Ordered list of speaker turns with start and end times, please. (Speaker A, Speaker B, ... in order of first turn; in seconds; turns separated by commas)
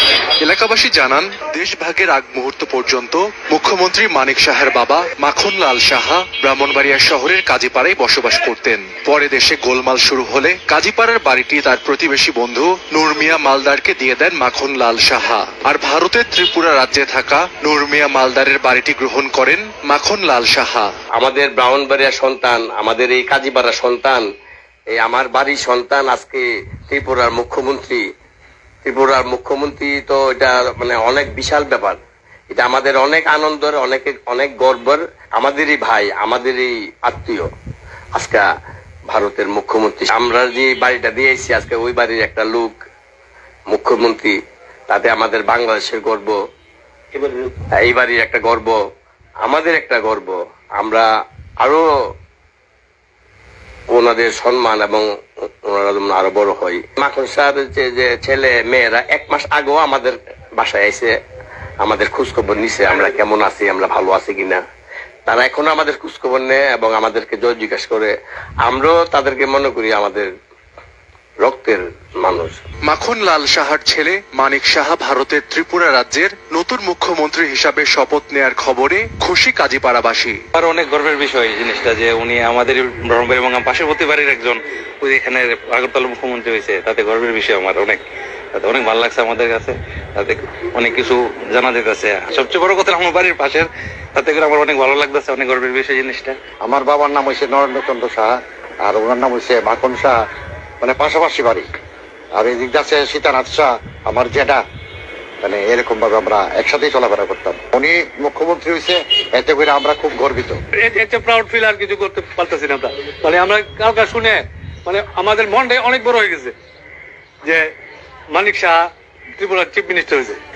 Speaker A: 0.4-20.9, Speaker B: 21.2-24.2, Speaker B: 24.9-28.0, Speaker B: 28.8-32.0, Speaker B: 32.5-37.5, Speaker B: 38.1-38.4, Speaker B: 39.1-42.8, Speaker B: 43.7-44.3, Speaker B: 44.9-46.4, Speaker B: 47.2-48.8, Speaker B: 49.4-51.0, Speaker B: 53.9-55.0, Speaker B: 55.7-61.1, Speaker B: 61.8-64.6, Speaker B: 65.3-68.1, Speaker B: 68.6-70.3, Speaker B: 71.4-72.6, Speaker A: 72.9-80.4, Speaker C: 80.5-88.0, Speaker C: 88.5-96.4, Speaker D: 96.6-98.3, Speaker D: 98.8-100.1, Speaker D: 100.8-101.7, Speaker D: 102.4-104.6, Speaker D: 105.4-110.6, Speaker E: 110.8-116.5, Speaker E: 118.3-118.8, Speaker E: 119.4-120.4